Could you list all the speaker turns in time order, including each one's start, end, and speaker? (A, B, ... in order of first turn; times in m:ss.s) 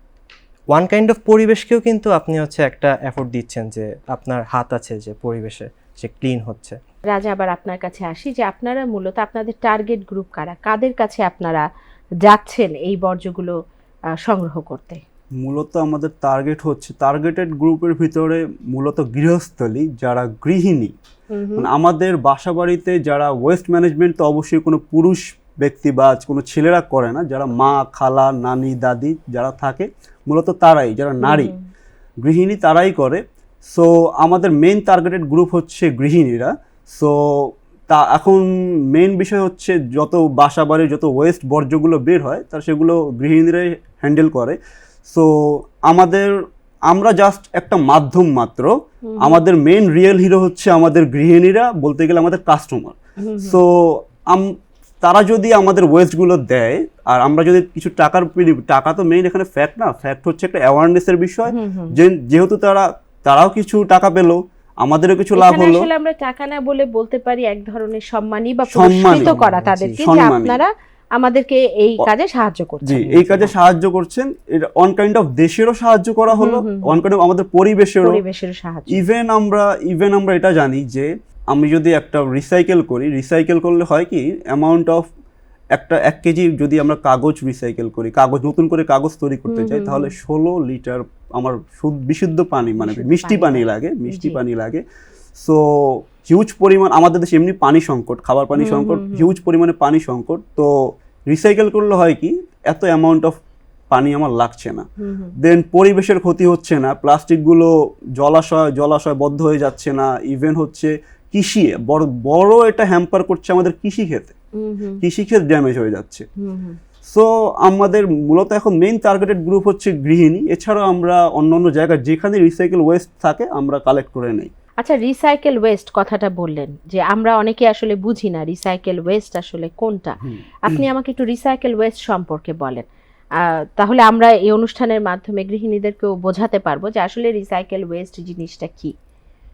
0:00.7-0:06.8 A
0:07.1-0:11.6 B
0:12.2-0:13.6 B
0:14.2-0:15.0 B
0:15.4-0:20.9 C
0:21.3-0:21.7 B
0:21.6-0:31.5 C
0:31.2-0:31.5 B
0:32.2-0:44.6 C
0:45.1-0:46.3 C
0:46.9-1:05.9 C
0:49.1-0:49.4 B
0:53.2-0:53.6 B
1:01.5-1:02.0 B
1:05.4-1:13.5 B
1:08.7-1:09.3 C
1:09.1-1:10.0 A
1:10.0-1:10.6 C
1:12.8-1:18.2 C
1:16.3-1:16.9 B
1:18.0-1:19.0 B
1:18.9-1:25.1 C
1:25.7-1:34.8 C
1:29.5-1:30.1 B
1:32.8-1:34.4 B
1:35.4-1:40.7 C
1:38.6-1:39.3 B
1:41.3-1:43.3 C
1:43.9-1:44.9 C
1:45.0-1:45.3 B
1:45.4-1:54.3 C
1:54.6-1:55.0 B
1:55.0-1:56.3 C
1:56.4-1:56.8 B
1:57.1-2:04.5 C
2:04.8-2:12.8 B
2:10.2-2:10.8 C
2:13.4-2:18.9 B